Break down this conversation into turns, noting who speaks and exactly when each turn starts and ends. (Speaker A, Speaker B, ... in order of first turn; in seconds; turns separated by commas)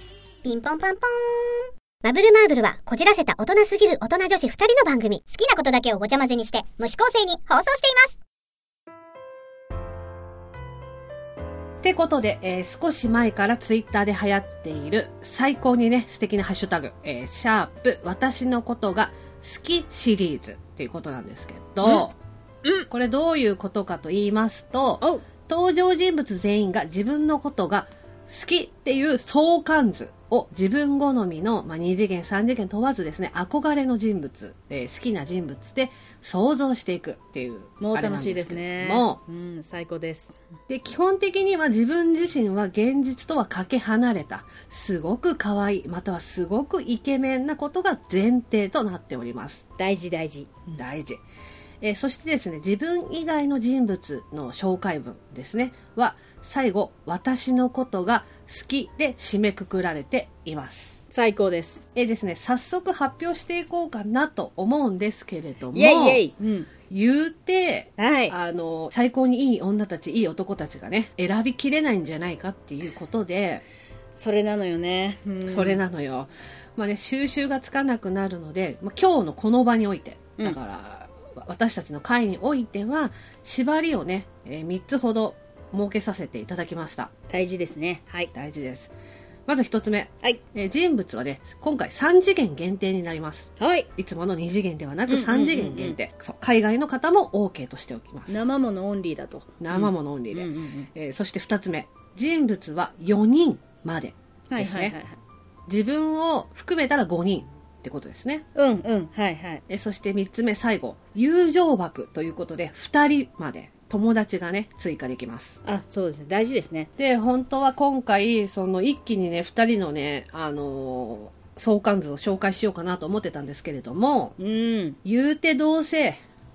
Speaker A: 0.4-8.2, Speaker B: 11.8-22.2, Speaker B: 22.9-39.2, Speaker C: 37.8-40.3, Speaker B: 40.7-49.6, Speaker C: 49.8-50.7, Speaker B: 50.8-51.2, Speaker B: 51.8-61.0, Speaker C: 61.1-61.8, Speaker B: 62.0-66.2, Speaker C: 65.7-66.7, Speaker B: 66.9-73.6, Speaker C: 68.0-68.3, Speaker C: 74.2-75.8, Speaker B: 75.5-87.1, Speaker C: 87.3-88.3, Speaker B: 88.3-88.9, Speaker B: 89.5-98.4, Speaker C: 93.6-93.9, Speaker C: 95.1-96.0, Speaker C: 98.3-100.9, Speaker B: 99.6-105.0, Speaker C: 104.5-105.2, Speaker B: 105.7-108.5, Speaker C: 108.5-109.6, Speaker B: 109.7-115.6, Speaker C: 115.7-116.9, Speaker B: 117.0-124.3, Speaker C: 124.4-125.0, Speaker B: 125.0-126.2